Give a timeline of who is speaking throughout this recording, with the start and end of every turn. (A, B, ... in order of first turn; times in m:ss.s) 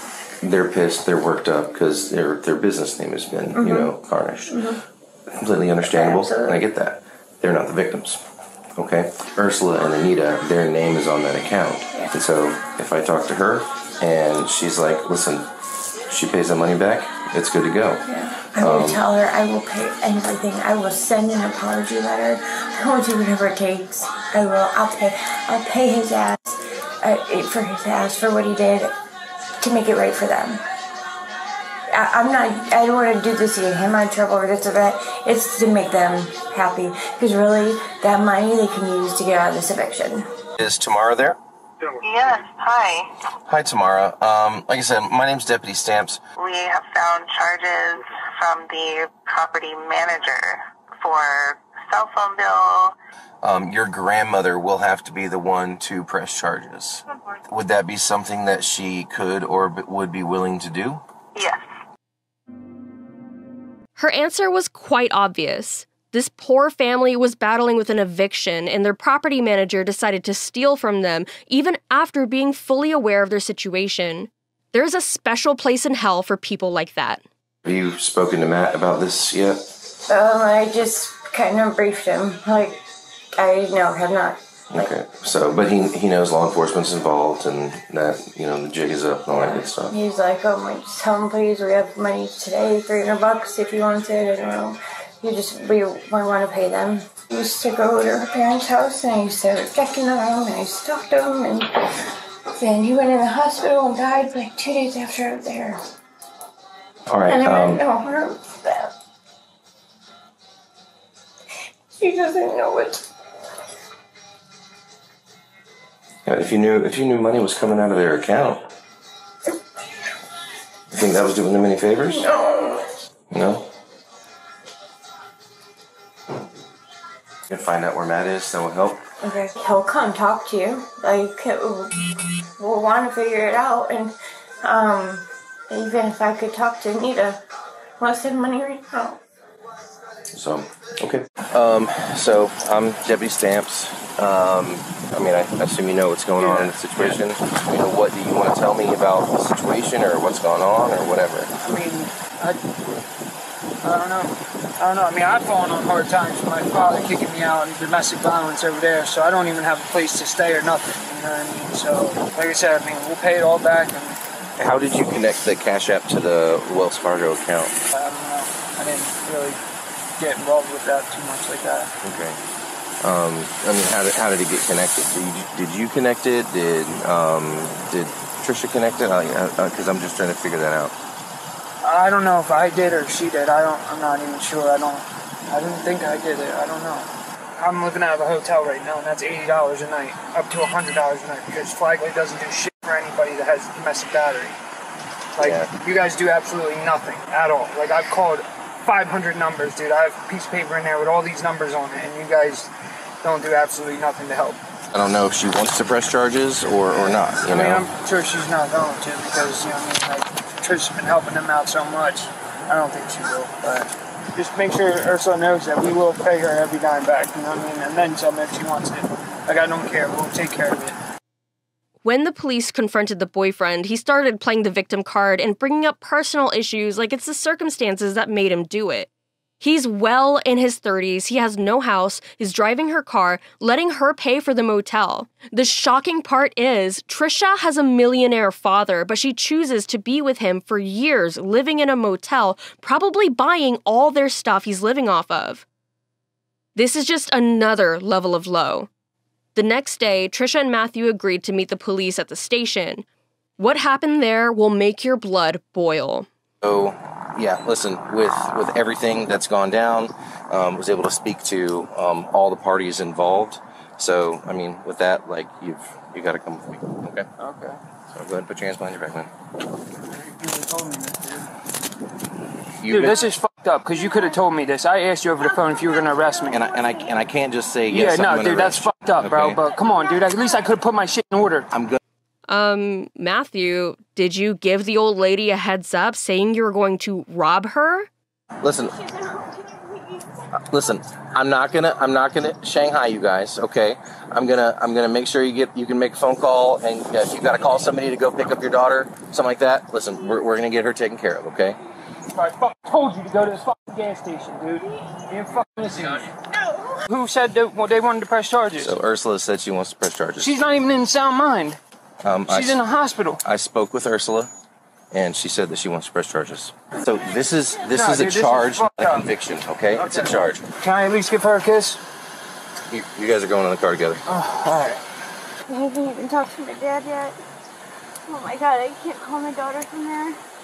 0:00.4-0:04.6 A
0:03.6-0:03.9 B
0:04.5-0:04.8 B
0:05.3-0:08.2 A
0:05.8-0:06.6 B
0:08.8-0:15.5 A
0:16.1-0:18.0 A
0:18.0-0:29.0 B
0:18.6-0:19.0 A
0:29.6-0:30.6 B
0:31.9-0:40.3 B
0:40.6-0:41.4 A
0:42.0-0:43.1 C
0:43.5-0:46.2 A
0:46.4-0:52.9 C
0:53.4-1:01.0 A
0:57.1-0:57.4 C
1:01.3-1:01.6 C
1:04.0-1:17.2 D
1:17.6-1:19.6 A
1:20.1-1:22.8 B
1:23.4-1:24.4 B
1:24.7-1:29.9 A
1:29.4-1:41.7 B
1:42.5-1:45.8 B
1:47.1-1:47.8 A
1:47.3-1:48.9 B
1:52.0-1:53.0 B
1:56.2-1:58.7 A
2:00.9-2:02.3 A
2:02.1-2:02.8 B
2:03.3-2:03.7 A
2:07.5-2:09.0 A
2:09.2-2:17.4 B
2:18.0-2:19.2 B
2:20.3-2:31.5 A
2:26.4-2:26.7 E
2:31.6-2:32.6 E
2:33.8-2:44.2 E
2:44.6-2:47.7 A
2:47.9-2:49.6 E
2:50.2-2:51.9 E
2:52.0-2:52.4 A
2:53.0-3:00.9 A
3:01.8-3:14.6 E
3:15.3-3:22.7 E
3:15.4-3:15.7 A
3:23.2-3:24.6 E
3:24.9-3:27.8 A
3:27.4-3:41.0 E
3:42.0-3:49.1 D
3:49.6-4:05.6 D
4:06.7-4:08.9 D
4:09.5-4:13.0 D
4:13.6-4:16.3 D
4:16.6-4:27.3 A
4:27.4-4:27.7 E
4:28.1-4:29.3 A
4:30.2-4:31.4 E
4:32.8-4:33.2 A
4:32.9-4:36.6 E
4:36.5-4:39.6 A
4:37.9-4:41.7 E
4:41.7-4:42.0 A
4:42.5-4:48.1 D
4:48.6-4:49.0 A
4:50.6-5:01.8 A
5:02.3-5:06.3 E
5:07.1-5:09.0 E
5:08.8-5:10.6 A
5:10.4-5:11.8 E
5:12.2-5:12.8 A
5:12.5-5:13.4 E
5:13.4-5:14.5 A
5:15.1-5:20.6 A
5:17.8-5:19.3 E
5:19.9-5:22.0 E
5:22.9-5:24.2 A
5:24.3-5:25.0 E
5:25.8-5:27.3 B
5:28.3-5:30.3 B